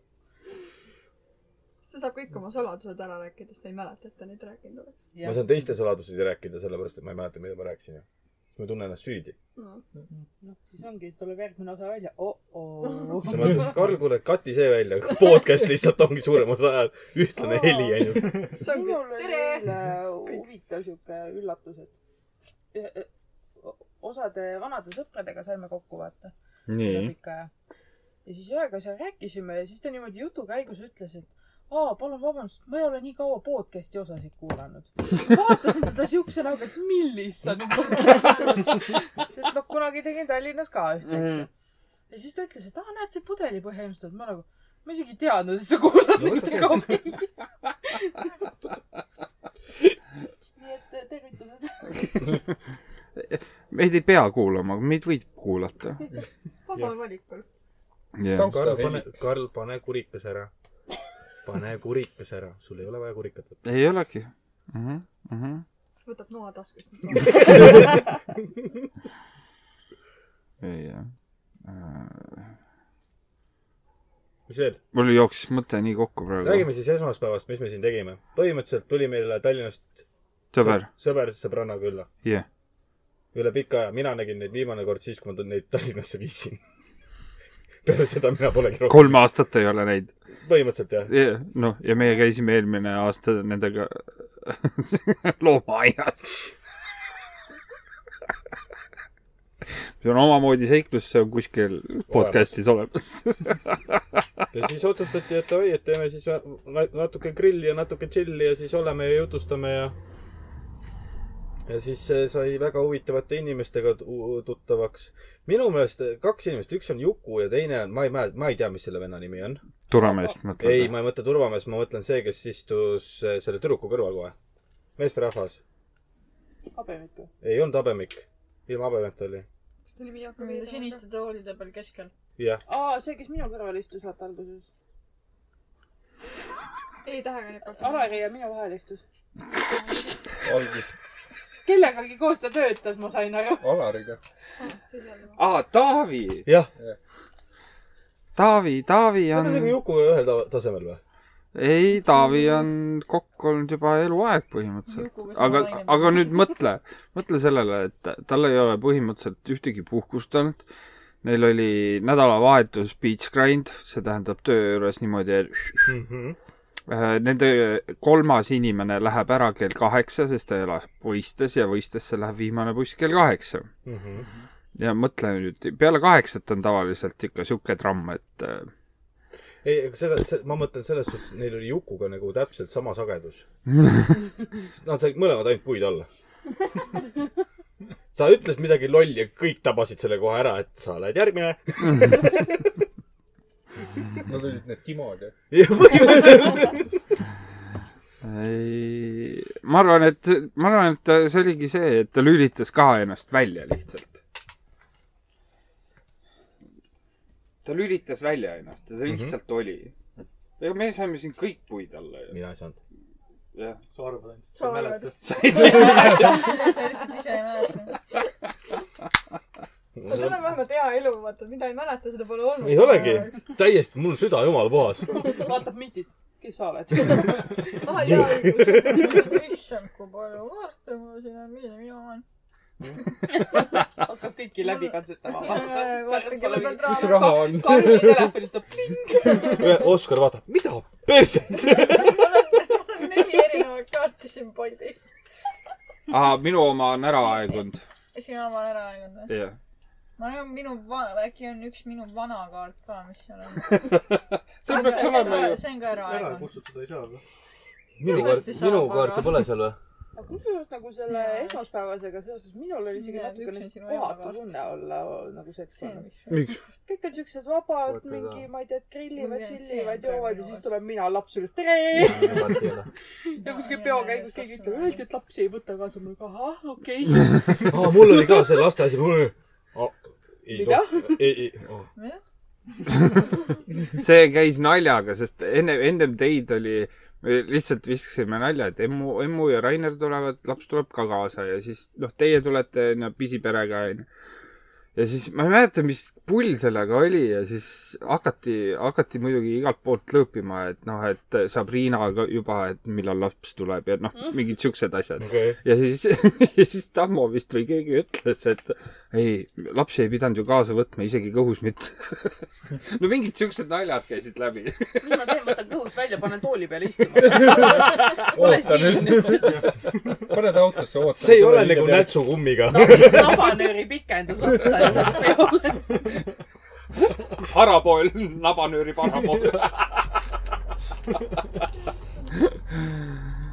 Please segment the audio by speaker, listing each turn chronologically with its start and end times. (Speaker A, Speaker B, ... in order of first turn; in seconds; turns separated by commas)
Speaker A: 1.8-4.9, Speaker B: 5.1-5.4, Speaker C: 5.2-9.3, Speaker A: 9.6-9.8, Speaker B: 10.4-13.7, Speaker C: 13.2-18.5, Speaker B: 17.4-21.9, Speaker A: 18.5-20.4, Speaker B: 22.7-27.5, Speaker D: 26.7-27.1, Speaker B: 28.2-41.5, Speaker D: 41.0-41.5, Speaker B: 42.1-47.3, Speaker C: 46.2-46.8, Speaker B: 47.9-48.2, Speaker B: 50.5-52.3, Speaker D: 53.2-56.0, Speaker A: 56.7-57.4, Speaker D: 58.1-58.7, Speaker E: 58.3-59.1, Speaker C: 58.4-60.5, Speaker C: 61.4-63.6, Speaker D: 63.6-65.6, Speaker A: 66.0-68.0, Speaker D: 70.6-71.1, Speaker D: 71.6-72.5, Speaker C: 74.5-74.8, Speaker D: 74.9-76.7, Speaker C: 76.4-80.0, Speaker D: 80.5-80.9, Speaker C: 80.6-82.1, Speaker C: 83.3-86.6, Speaker C: 87.8-89.2, Speaker D: 88.9-90.1, Speaker C: 90.4-91.1, Speaker D: 91.1-96.5, Speaker D: 100.0-104.2, Speaker C: 102.1-102.5, Speaker C: 104.5-109.9, Speaker C: 111.7-119.6, Speaker D: 119.9-121.0, Speaker B: 120.0-120.3, Speaker C: 120.6-124.3, Speaker C: 125.0-125.6, Speaker B: 126.7-127.3, Speaker C: 127.4-129.4, Speaker A: 129.8-131.0, Speaker F: 130.4-132.1, Speaker C: 132.4-132.6, Speaker B: 132.7-134.7, Speaker A: 137.0-138.2, Speaker B: 137.8-139.0, Speaker E: 140.4-140.9, Speaker B: 141.6-143.7, Speaker E: 143.6-144.2, Speaker A: 144.6-145.4, Speaker D: 145.3-146.5, Speaker D: 148.3-149.8, Speaker C: 149.3-151.0, Speaker D: 151.5-160.6, Speaker F: 154.9-156.5, Speaker D: 161.2-165.9, Speaker C: 165.8-166.4, Speaker D: 166.9-173.7, Speaker C: 173.8-174.2, Speaker D: 174.8-178.7, Speaker C: 179.6-183.4, Speaker C: 184.7-186.1, Speaker C: 188.1-192.7, Speaker E: 194.2-195.3, Speaker C: 195.5-196.9, Speaker D: 198.2-204.2, Speaker D: 207.6-209.9, Speaker C: 209.1-209.3, Speaker D: 210.6-212.4, Speaker C: 212.3-212.8, Speaker D: 213.5-213.8, Speaker G: 213.9-215.2, Speaker A: 214.5-215.7, Speaker D: 215.2-216.5, Speaker F: 215.5-218.0, Speaker C: 219.9-220.5, Speaker A: 220.1-223.4, Speaker C: 222.6-225.1, Speaker B: 225.1-227.9, Speaker A: 227.8-229.3, Speaker C: 227.9-229.3, Speaker F: 228.9-232.2, Speaker B: 234.0-239.8, Speaker A: 235.3-237.5, Speaker E: 236.8-238.3, Speaker C: 239.3-242.3, Speaker F: 241.7-245.1, Speaker D: 246.1-247.8, Speaker F: 248.1-249.3, Speaker D: 249.3-249.6, Speaker F: 250.2-253.9, Speaker D: 253.8-255.6, Speaker F: 254.6-256.5, Speaker G: 255.9-257.2, Speaker C: 258.0-259.8, Speaker F: 258.0-259.5, Speaker B: 260.1-266.1, Speaker F: 261.1-261.7, Speaker F: 262.9-264.4, Speaker F: 265.7-266.4, Speaker D: 266.3-266.6, Speaker B: 266.8-272.5, Speaker C: 267.9-268.4, Speaker F: 269.1-270.6, Speaker C: 272.0-272.9, Speaker B: 273.2-277.7, Speaker F: 273.4-275.0, Speaker C: 277.7-281.9, Speaker B: 280.5-281.4, Speaker F: 281.9-282.2, Speaker D: 283.9-294.1, Speaker D: 294.9-315.4, Speaker C: 305.2-305.6, Speaker B: 315.0-319.6, Speaker E: 317.2-322.2, Speaker C: 321.1-323.5, Speaker B: 322.7-326.1, Speaker D: 327.4-330.1, Speaker D: 332.7-333.2